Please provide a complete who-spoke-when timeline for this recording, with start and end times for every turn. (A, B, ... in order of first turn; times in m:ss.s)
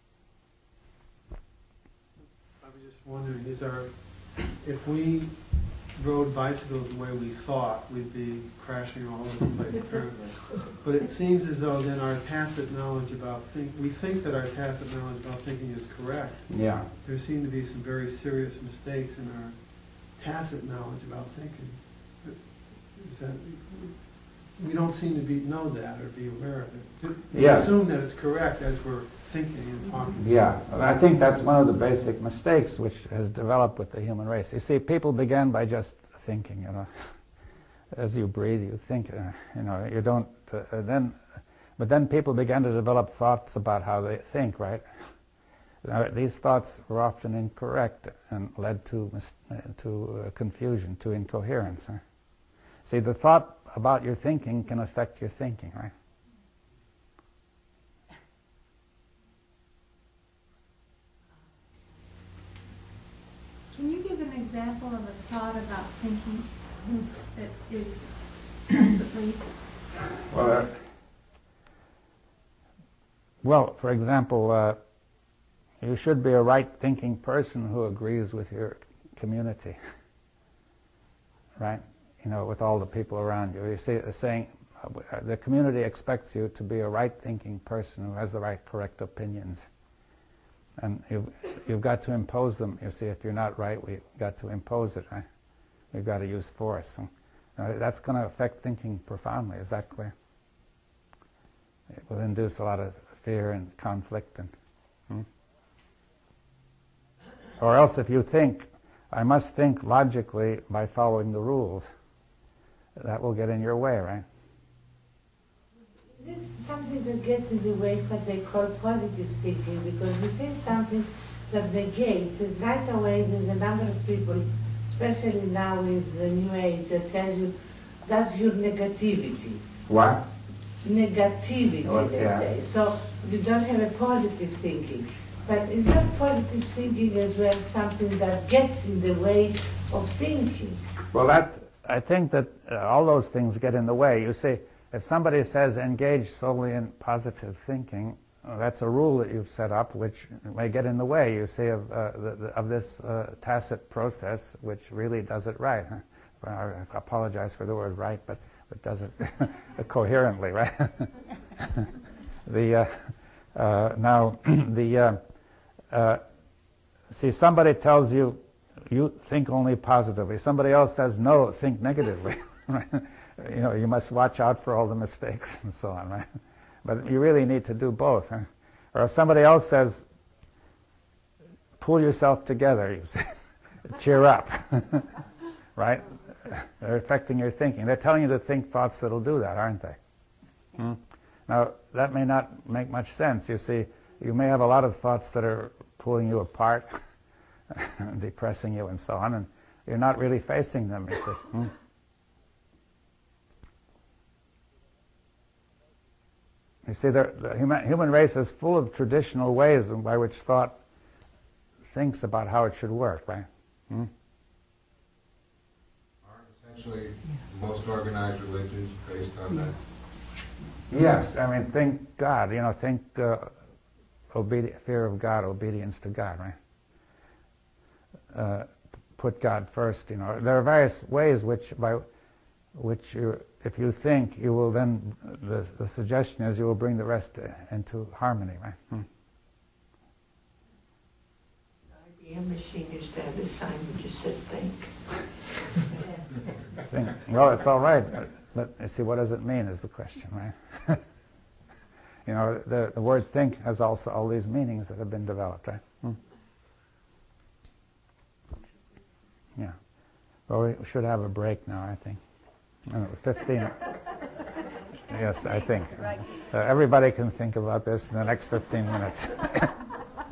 0:02.2-0:30.2 A
0:16.5-0:16.9 B
0:27.3-0:27.7 B
0:30.2-0:37.2 B
0:37.9-0:41.2 B
0:41.8-0:45.1 B
0:45.8-0:52.0 B
0:52.8-0:55.9 B
1:03.7-1:09.5 C
1:10.3-1:10.8 B
1:13.4-1:14.8 B
1:15.8-1:19.8 B
1:21.6-1:29.7 B
1:30.8-1:35.2 B
1:35.9-1:40.1 B
1:41.9-1:44.5 B
1:47.6-1:51.9 B
1:53.0-1:54.2 B
1:56.1-2:09.6 D
2:09.9-2:10.2 B
2:10.8-2:20.8 D
2:11.8-2:12.5 B
2:21.1-2:41.9 B
2:42.4-2:45.2 B
2:45.9-2:46.2 B
2:47.1-2:56.3 B
2:56.8-3:00.0 B
3:01.8-3:05.1 B
3:05.8-3:10.0 B
3:10.8-3:17.0 B
3:17.7-3:21.7 B
3:26.8-3:30.8 B
3:31.9-3:34.1 B
3:36.2-3:39.8 E
3:40.9-3:43.6 B
3:44.3-3:46.6 B
3:48.3-3:52.0 B
3:52.7-3:59.0 B
4:01.9-4:04.9 D
4:05.9-4:06.2 D
4:06.9-4:11.0 B
4:12.2-4:16.2 B
4:20.5-4:22.2 B
4:22.9-4:23.9 B
4:25.1-4:29.7 B